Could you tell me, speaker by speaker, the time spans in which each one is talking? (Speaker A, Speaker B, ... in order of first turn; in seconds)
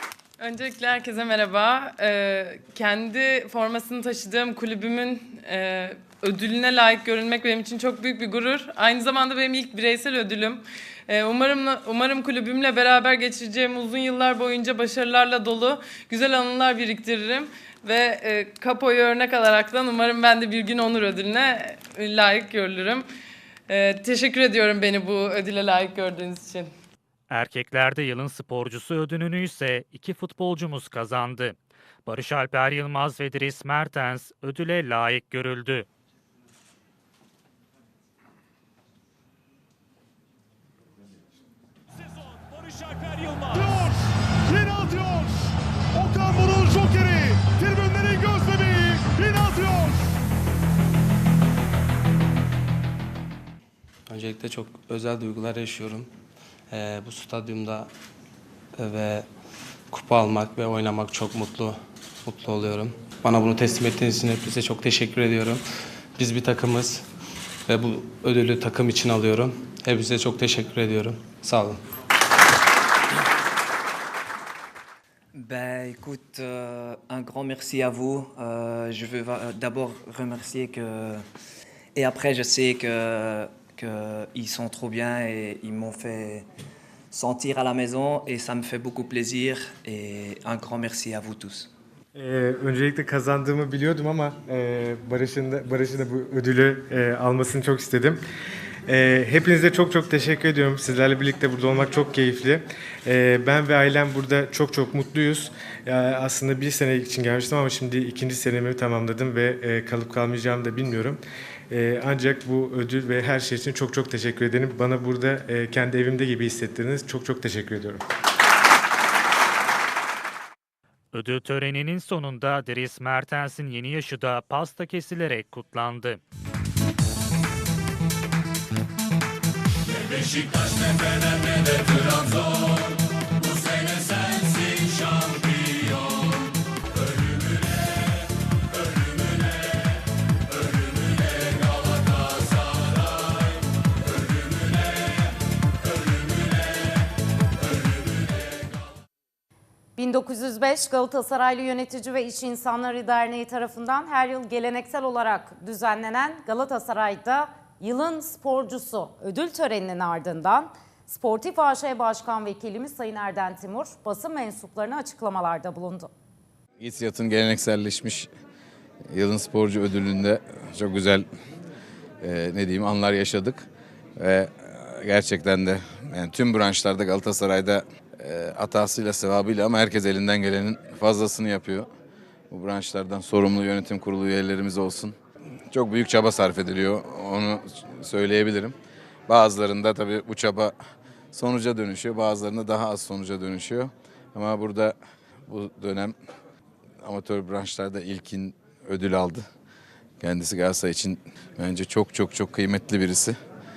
Speaker A: 0.4-23.1, 23.7-26.7
Speaker B: 27.3-35.9, 121.1-126.2
Speaker C: 43.5-50.1
Speaker D: 54.1-56.1, 56.7-57.9, 58.8-59.3, 59.9-67.1, 67.7-71.8
Speaker E: 75.3-81.2, 81.9-86.5, 87.1-91.7
Speaker F: 92.1-98.2, 98.9-118.0
Speaker G: 149.9-166.1
Speaker H: 166.8-168.3, 169.1-171.2, 172.2-181.9, 182.5-185.2, 185.7-188.8, 189.3-190.8, 191.3-194.9, 195.5-196.2, 197.0-199.4, 200.2-203.4